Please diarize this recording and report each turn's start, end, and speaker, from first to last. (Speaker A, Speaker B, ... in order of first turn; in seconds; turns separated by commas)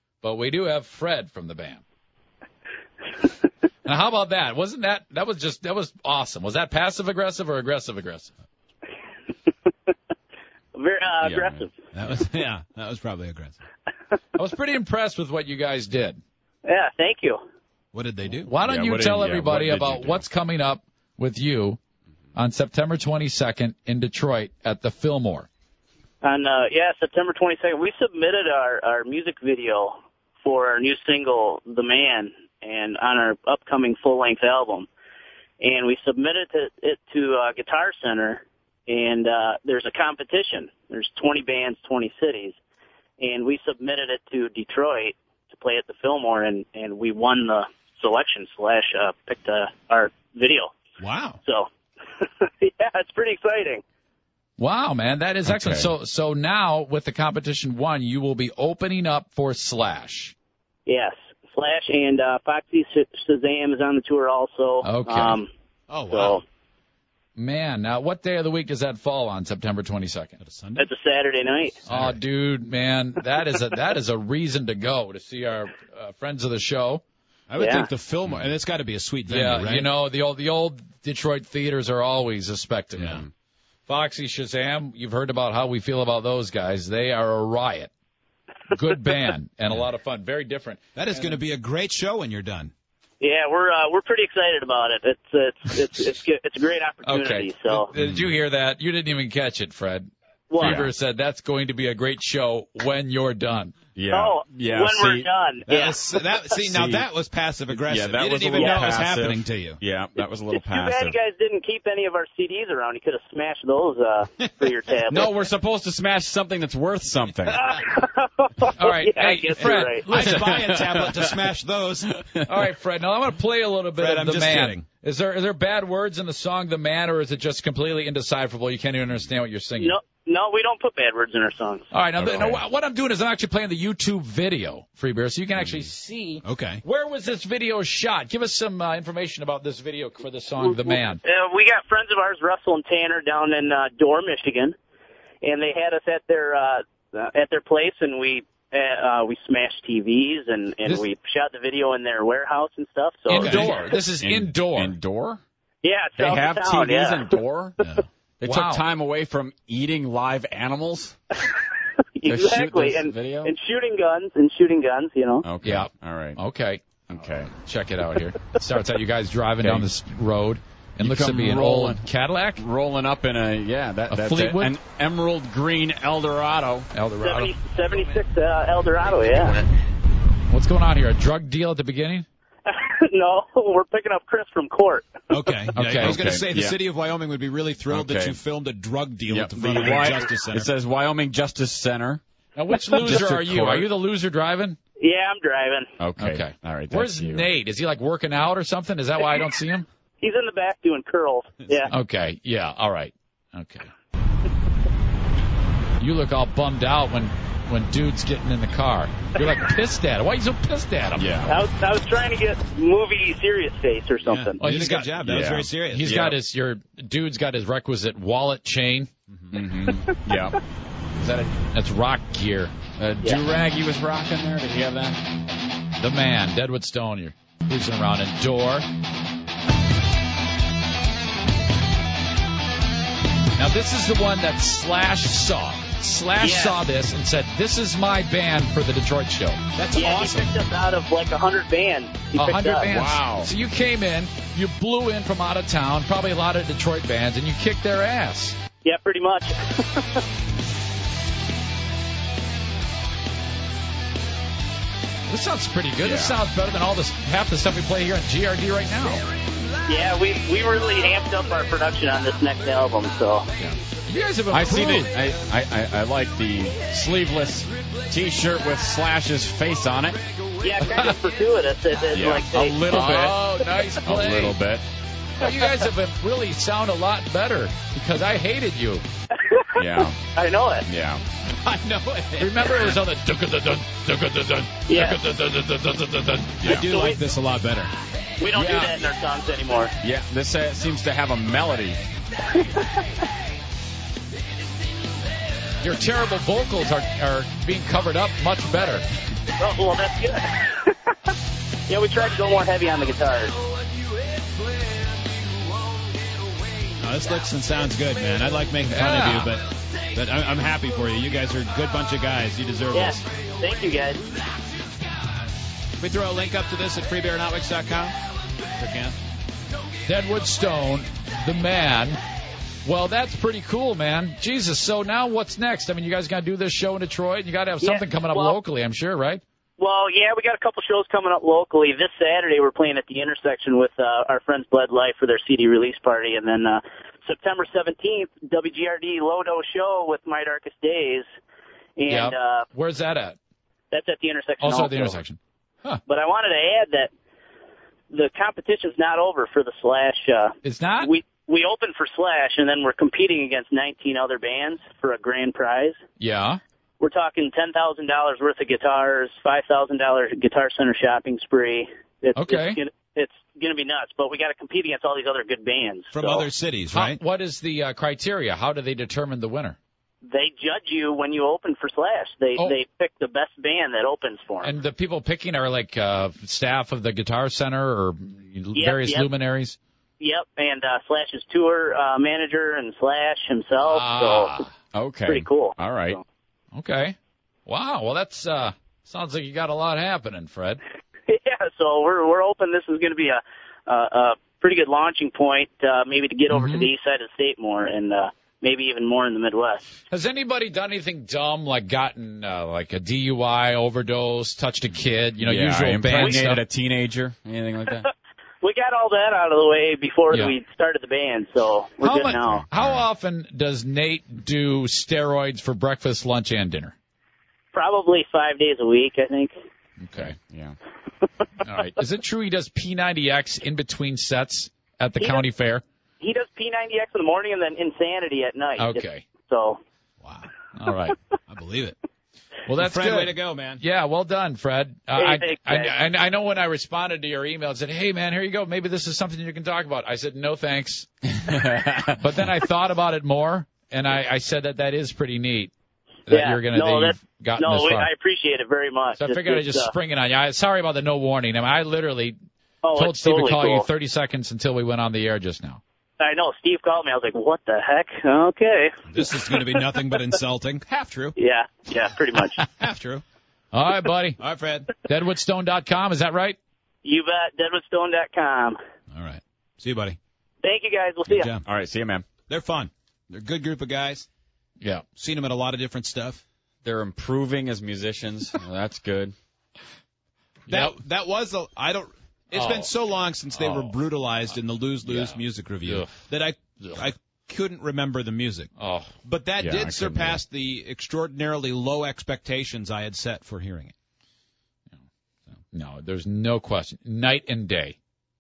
Speaker A: 0.2-1.8, Speaker A: 3.9-8.3, Speaker B: 10.7-11.8, Speaker C: 11.2-11.7, Speaker D: 11.9-13.6, Speaker A: 14.3-16.2, Speaker B: 16.6-17.4, Speaker D: 17.9-18.5, Speaker A: 18.5-21.8, Speaker C: 18.6-20.2, Speaker A: 22.4-25.5, Speaker B: 26.2-34.9, Speaker B: 35.6-42.6, Speaker B: 43.2-50.7, Speaker D: 51.0-51.4, Speaker B: 52.2-53.8, Speaker A: 54.6-60.4, Speaker C: 55.5-55.9, Speaker B: 60.9-65.5, Speaker A: 64.8-65.4, Speaker D: 65.9-66.4, Speaker B: 66.1-66.4, Speaker A: 67.4-70.4, Speaker D: 70.4-70.9, Speaker B: 70.8-71.8, Speaker D: 71.9-72.2, Speaker A: 71.9-77.0, Speaker D: 77.5-79.9, Speaker B: 77.6-77.9, Speaker A: 79.3-83.3, Speaker A: 83.9-87.9, Speaker A: 88.7-91.4, Speaker D: 91.0-92.7, Speaker B: 93.2-97.9, Speaker A: 97.0-103.8, Speaker C: 98.0-98.3, Speaker B: 100.5-100.8, Speaker C: 100.6-100.9, Speaker C: 104.0-105.3, Speaker B: 104.1-106.1, Speaker D: 105.7-109.8, Speaker C: 106.7-107.1, Speaker C: 107.9-111.2, Speaker B: 108.6-108.9, Speaker B: 110.5-115.3, Speaker C: 115.1-117.6, Speaker B: 117.5-120.1, Speaker A: 118.8-120.6, Speaker D: 119.6-122.2, Speaker C: 120.3-121.2, Speaker A: 122.5-130.0, Speaker D: 124.0-124.8, Speaker B: 129.8-131.9, Speaker A: 131.9-141.2, Speaker C: 132.2-132.6, Speaker D: 136.4-136.8, Speaker B: 140.6-144.8, Speaker B: 145.4-153.7, Speaker A: 153.3-154.9, Speaker D: 153.4-153.8, Speaker C: 154.2-155.4, Speaker B: 155.8-157.4, Speaker C: 156.2-157.8, Speaker C: 158.4-161.2, Speaker A: 158.4-158.8, Speaker B: 162.2-165.4, Speaker C: 162.2-163.5, Speaker C: 165.4-166.4, Speaker A: 165.6-172.6, Speaker C: 167.1-167.5, Speaker C: 169.6-169.9, Speaker C: 171.0-176.9, Speaker A: 174.1-174.8, Speaker A: 176.9-177.5, Speaker B: 177.2-179.6, Speaker A: 180.5-182.3, Speaker B: 182.7-185.5, Speaker D: 185.3-190.7, Speaker A: 185.8-186.3, Speaker C: 186.0-186.8, Speaker C: 187.9-188.4, Speaker C: 189.3-192.2, Speaker A: 192.6-194.8, Speaker C: 192.9-193.9, Speaker B: 195.0-195.9, Speaker C: 196.0-197.5, Speaker A: 196.2-199.9, Speaker B: 200.2-201.9, Speaker A: 201.9-203.9, Speaker A: 206.0-211.3, Speaker C: 211.2-211.6, Speaker B: 211.5-214.6, Speaker D: 214.2-216.2, Speaker A: 214.6-215.2, Speaker C: 215.2-216.4, Speaker A: 215.9-219.1, Speaker C: 219.5-220.6, Speaker B: 219.9-220.4, Speaker C: 221.2-221.6, Speaker A: 221.7-222.7, Speaker C: 223.0-225.2, Speaker A: 226.0-228.9, Speaker A: 233.6-239.6, Speaker B: 236.4-236.8, Speaker D: 239.8-240.5, Speaker B: 239.9-242.9, Speaker A: 242.4-248.6, Speaker C: 242.9-243.5, Speaker B: 248.8-250.2, Speaker A: 255.3-259.2, Speaker C: 256.0-256.4, Speaker B: 259.9-263.5, Speaker A: 263.6-265.1, Speaker C: 264.5-270.2, Speaker B: 270.6-272.9, Speaker C: 272.1-273.4, Speaker A: 272.9-274.6, Speaker C: 274.0-274.9, Speaker A: 275.4-279.0, Speaker B: 279.4-280.9, Speaker C: 279.8-280.2, Speaker C: 280.9-281.2, Speaker D: 281.6-283.0, Speaker A: 282.4-286.5, Speaker B: 284.9-285.2, Speaker D: 286.5-287.9, Speaker C: 286.6-286.9, Speaker B: 286.8-287.2, Speaker B: 288.4-289.9, Speaker A: 288.5-288.9, Speaker C: 290.0-292.0, Speaker B: 292.5-293.1, Speaker A: 295.8-299.0, Speaker B: 299.6-301.0, Speaker B: 301.9-303.6, Speaker D: 307.0-313.2, Speaker A: 308.9-309.5, Speaker B: 312.9-314.3, Speaker D: 316.0-318.2, Speaker D: 318.8-319.2, Speaker A: 320.1-322.2, Speaker A: 322.9-329.4, Speaker B: 327.8-328.6, Speaker B: 329.8-341.3, Speaker B: 342.0-342.7, Speaker A: 342.1-343.4, Speaker B: 343.9-345.2, Speaker A: 344.6-346.0, Speaker B: 346.1-347.1, Speaker B: 348.1-356.0, Speaker A: 350.6-351.1, Speaker A: 356.2-356.6, Speaker B: 357.0-366.5, Speaker A: 362.4-362.8, Speaker D: 366.1-367.2, Speaker A: 366.9-369.8, Speaker B: 370.3-374.8, Speaker A: 374.6-379.8, Speaker B: 378.8-379.3, Speaker B: 380.2-384.6, Speaker A: 383.8-384.7, Speaker C: 384.9-386.2, Speaker B: 385.3-386.2, Speaker A: 386.7-390.8, Speaker B: 391.3-400.0, Speaker A: 396.5-396.9, Speaker A: 400.1-406.6, Speaker C: 405.4-408.1, Speaker B: 406.1-406.4, Speaker B: 408.6-412.7, Speaker A: 412.0-417.0, Speaker C: 412.3-413.1, Speaker B: 417.7-419.5, Speaker A: 420.0-420.4, Speaker C: 420.2-420.8, Speaker A: 421.6-425.8, Speaker B: 426.2-429.8, Speaker A: 428.8-429.3, Speaker D: 430.2-430.5, Speaker A: 430.8-431.2, Speaker D: 431.5-432.0, Speaker A: 432.7-441.1, Speaker D: 432.8-433.8, Speaker B: 435.2-436.0, Speaker C: 441.3-442.2, Speaker A: 442.1-445.7, Speaker A: 446.3-448.1, Speaker B: 446.3-449.9, Speaker A: 449.2-452.4, Speaker B: 452.8-453.9, Speaker A: 453.0-455.8, Speaker B: 456.2-459.8, Speaker D: 459.1-461.4, Speaker B: 461.4-462.7, Speaker D: 462.7-463.2, Speaker A: 463.7-464.4, Speaker D: 464.4-465.0, Speaker A: 465.0-466.6, Speaker B: 467.0-468.8, Speaker D: 469.1-470.2, Speaker B: 470.6-471.5, Speaker D: 471.3-471.6, Speaker C: 471.6-472.3, Speaker D: 472.5-474.3, Speaker D: 475.2-476.4, Speaker C: 476.8-479.3, Speaker A: 480.7-481.0, Speaker D: 480.7-488.7, Speaker A: 482.5-482.9, Speaker A: 483.5-483.9, Speaker A: 485.1-486.1, Speaker A: 488.8-489.1, Speaker D: 489.2-493.9, Speaker C: 489.6-490.4, Speaker A: 495.7-498.0